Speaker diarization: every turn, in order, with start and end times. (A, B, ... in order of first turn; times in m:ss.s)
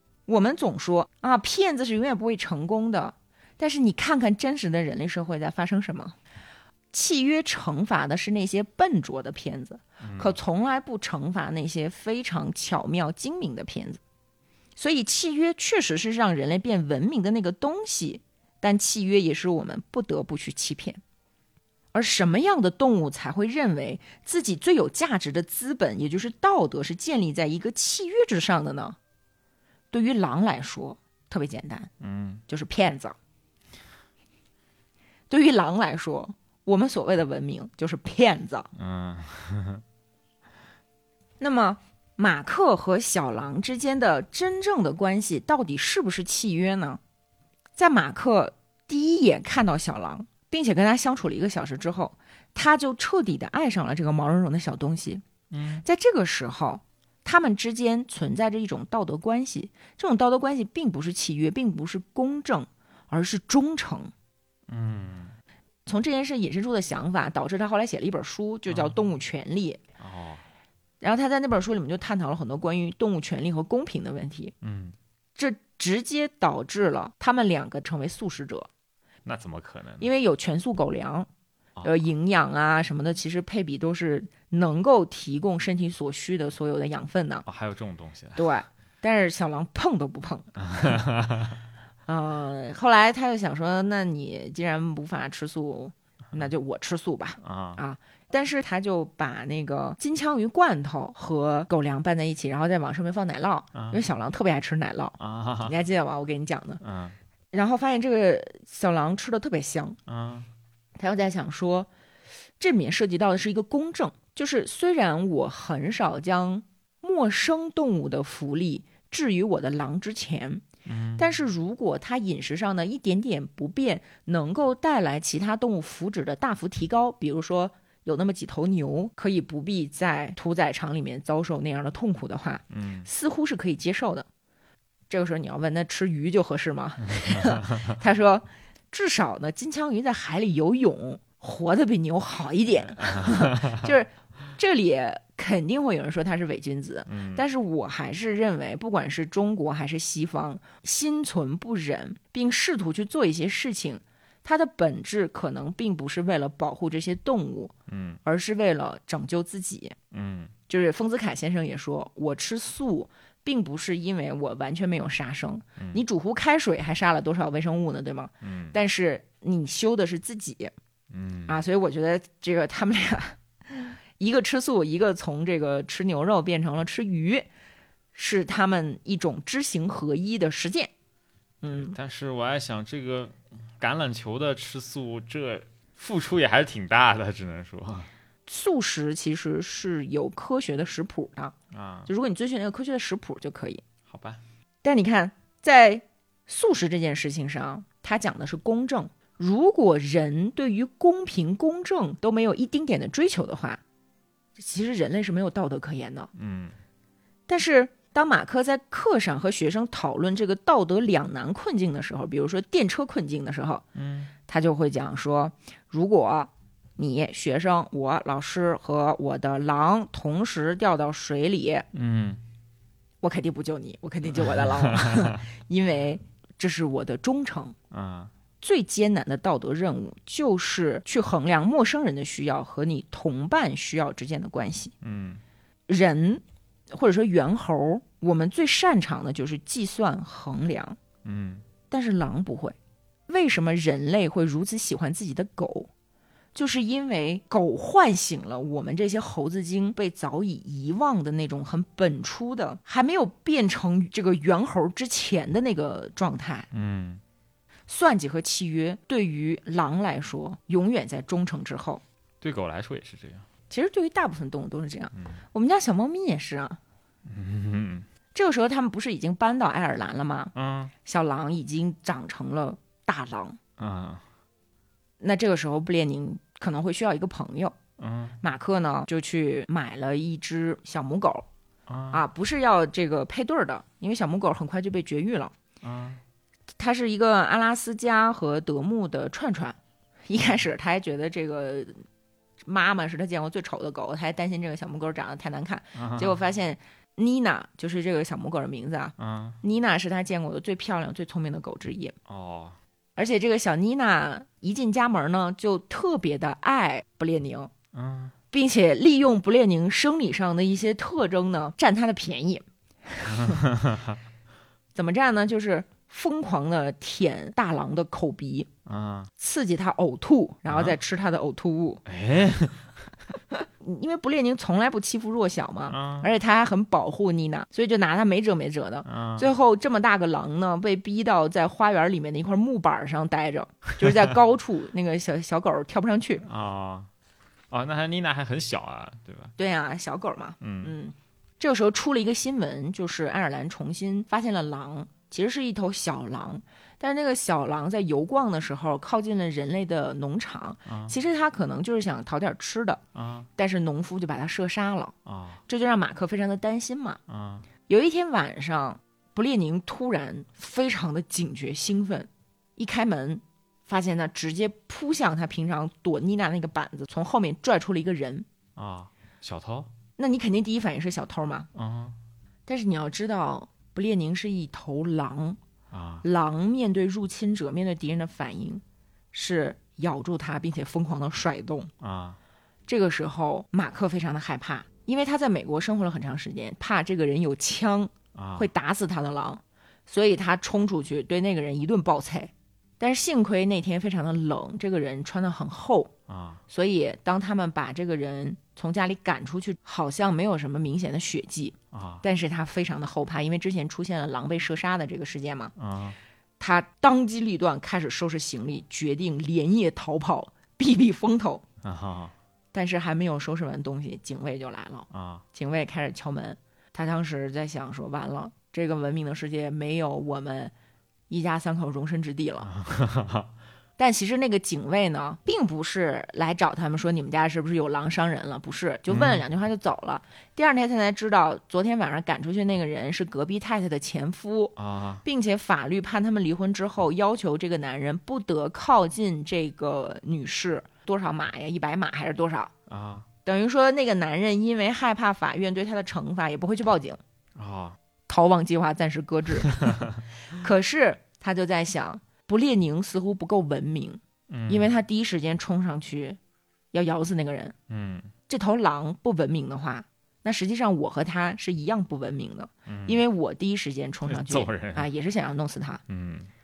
0:00.3-0:06.2 A
0:06.9-0:14.0 A
0:10.0-0:10.4 B
0:14.8-0:21.0 A
0:21.9-0:29.0 A
0:29.9-0:31.9 A
0:32.0-0:32.4 B
0:32.5-0:33.2 A
0:35.3-0:38.7 A
0:38.7-0:39.8 B
0:41.4-0:47.0 A
0:47.8-0:55.2 A
0:55.5-0:55.8 B
0:55.8-1:04.1 A
1:04.7-1:05.3 B
1:05.8-1:09.8 A
1:08.7-1:09.0 B
1:10.0-1:10.4 B
1:11.0-1:14.5 A
1:14.6-1:14.9 B
1:15.4-1:18.7 A
1:19.2-1:20.1 B
1:20.0-1:21.3 A
1:21.8-1:22.1 B
1:21.8-1:27.4 A
1:27.4-1:28.4 B
1:28.4-1:31.0 A
1:30.6-1:31.6 B
1:32.1-1:46.8 A
1:37.4-1:37.8 B
1:43.7-1:44.0 B
1:45.2-1:45.7 B
1:46.8-1:47.2 B
1:47.5-1:50.0 A
1:50.1-1:50.5 B
1:51.0-1:51.9 A
1:52.6-2:00.6 A
2:00.8-2:01.2 B
2:01.2-2:14.3 A
2:12.7-2:13.1 B
2:15.1-2:37.7 A
2:17.1-2:17.9 B
2:23.0-2:23.9 B
2:27.1-2:27.4 B
2:37.9-2:38.2 B
2:38.2-2:40.0 A
2:40.1-2:40.5 B
2:40.7-2:50.7 A
2:48.4-2:48.8 B
2:51.1-2:51.6 B
2:51.5-2:57.5 A
2:58.1-3:00.9 A
3:01.6-3:02.0 A
3:01.7-3:08.1 B
3:08.4-3:11.5 A
3:11.7-3:12.1 B
3:12.1-3:13.8 A
3:14.1-3:14.4 B
3:14.8-3:23.8 A
3:24.6-3:26.3 A
3:26.3-3:26.7 B
3:27.5-3:33.8 A
3:33.9-3:34.3 B
3:34.5-3:41.8 A
3:41.9-3:42.4 B
3:43.2-3:47.7 A
3:44.4-3:45.4 B
3:47.9-3:48.3 B
3:48.6-3:54.9 A
3:55.0-3:55.4 B
3:55.9-4:01.0 A
4:01.2-4:01.6 B
4:01.9-4:02.8 A
4:03.3-4:05.9 A
4:06.5-4:16.7 A
4:16.7-4:17.2 B
4:17.9-4:22.0 A
4:22.4-4:23.4 B
4:23.7-4:26.8 A
4:27.2-4:28.1 B
4:28.3-4:30.5 A
4:30.5-4:30.9 B
4:31.0-4:33.6 A
4:33.8-4:34.2 B
4:35.2-4:37.7 A
4:38.0-4:38.4 B
4:38.4-4:41.4 A
4:41.9-4:42.2 B
4:42.1-4:45.5 A
4:45.8-4:46.2 B
4:46.8-4:52.0 A
4:52.6-5:02.1 A
4:55.9-4:56.4 B
4:59.2-4:59.6 B
5:02.3-5:02.8 B
5:03.2-5:07.7 A
5:07.9-5:08.3 B
5:08.5-5:13.6 A
5:13.3-5:14.2 B
5:14.9-5:18.7 A
5:18.8-5:19.3 B
5:19.4-5:22.0 A
5:20.7-5:21.0 B
5:22.0-5:23.0 B
5:23.5-5:36.4 A
5:25.9-5:26.3 B
5:29.0-5:29.5 B
5:36.4-5:37.1 B
5:37.7-5:39.5 B
5:39.6-5:53.0 A
5:40.6-5:40.9 B
5:50.9-5:51.1 B
5:53.1-5:53.5 B
5:53.6-5:55.1 A
5:55.2-5:55.6 B
5:55.7-5:57.2 A
5:57.3-5:57.7 B
5:57.9-6:08.4 A
6:08.8-6:09.9 B
6:10.2-6:11.7 A
6:11.7-6:12.2 B
6:12.7-6:15.6 A
6:15.9-6:16.2 B
6:16.2-6:18.8 A
6:19.3-6:21.9 A
6:22.0-6:22.4 B
6:22.9-6:36.1 A
6:28.3-6:28.7 B
6:36.3-6:36.6 B
6:36.7-6:45.7 A
6:41.9-6:42.2 B
6:45.8-6:46.2 B
6:46.6-6:51.6 A
6:51.8-6:52.3 B
6:52.7-7:00.7 A
6:55.1-6:55.4 B
7:01.3-7:02.7 A
7:02.6-7:03.5 B
7:04.0-7:22.7 A
7:09.1-7:09.4 B
7:14.8-7:15.2 B
7:22.9-7:23.3 B
7:23.4-7:27.2 A
7:27.6-7:28.0 B
7:28.3-7:30.0 A
7:29.8-7:30.0 B
7:30.5-7:36.4 A
7:34.5-7:34.9 B
7:36.9-7:37.7 A
7:37.9-7:38.3 B
7:38.5-7:46.0 A
7:42.8-7:43.2 B
7:44.2-7:45.1 B
7:46.1-7:46.5 B